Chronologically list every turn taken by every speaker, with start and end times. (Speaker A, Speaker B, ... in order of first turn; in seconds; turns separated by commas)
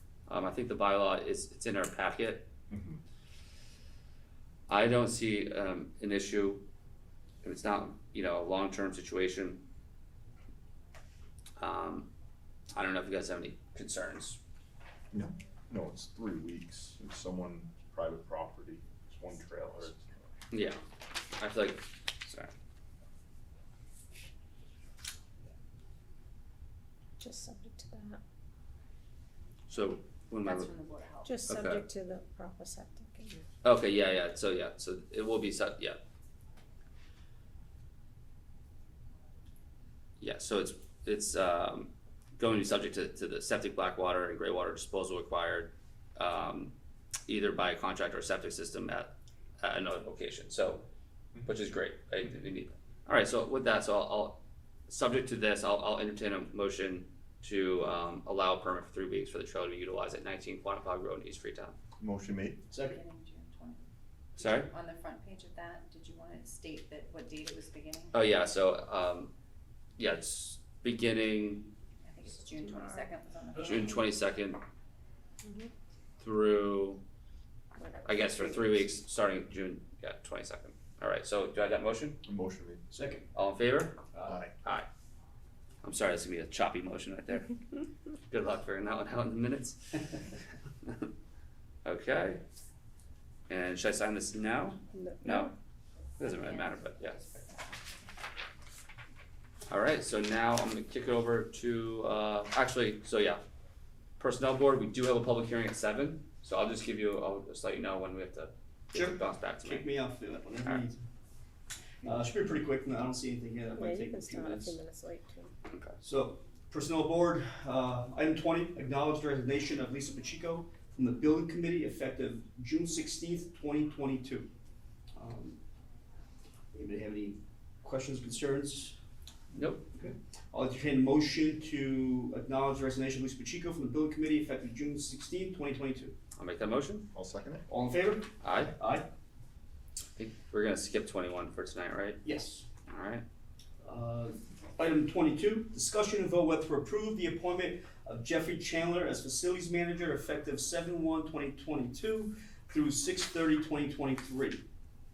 Speaker A: 0.3-2.5, Speaker B: 2.7-3.0, Speaker A: 4.7-6.6, Speaker A: 7.4-9.6, Speaker A: 11.6-12.1, Speaker A: 12.8-14.4, Speaker B: 15.1-20.2, Speaker A: 20.5-20.8, Speaker A: 21.4-22.5, Speaker C: 27.2-28.2, Speaker A: 29.7-30.7, Speaker D: 30.4-31.4, Speaker C: 31.2-33.4, Speaker A: 31.5-31.8, Speaker A: 33.6-36.0, Speaker A: 40.2-46.7, Speaker A: 47.3-50.9, Speaker A: 51.5-61.8, Speaker B: 62.0-62.6, Speaker E: 62.7-63.0, Speaker D: 62.8-63.8, Speaker A: 64.4-64.7, Speaker D: 64.4-68.2, Speaker A: 68.1-69.3, Speaker A: 70.0-71.7, Speaker D: 72.0-74.1, Speaker C: 72.6-73.0, Speaker A: 73.6-74.6, Speaker C: 75.4-75.7, Speaker A: 76.2-77.0, Speaker C: 77.8-78.0, Speaker A: 78.0-82.2, Speaker D: 78.1-78.6, Speaker B: 82.2-82.8, Speaker E: 82.9-83.2, Speaker A: 83.3-84.0, Speaker E: 84.1-84.4, Speaker B: 84.3-84.5, Speaker A: 85.8-87.6, Speaker A: 88.3-90.2, Speaker A: 91.8-92.4, Speaker A: 93.5-95.5, Speaker C: 94.9-95.5, Speaker A: 96.2-97.2, Speaker D: 96.2-98.1, Speaker A: 99.7-103.4, Speaker A: 104.2-109.9, Speaker E: 108.9-111.0, Speaker E: 112.0-114.8, Speaker C: 113.7-115.5, Speaker A: 115.7-116.0, Speaker E: 116.0-124.5, Speaker E: 125.2-125.6, Speaker E: 126.7-129.0, Speaker A: 129.5-129.9, Speaker E: 130.0-136.2, Speaker A: 136.4-137.1, Speaker B: 137.1-137.7, Speaker E: 137.7-139.1, Speaker A: 138.4-138.7, Speaker A: 140.2-142.2, Speaker E: 142.2-142.7, Speaker A: 142.9-143.2, Speaker E: 143.8-154.6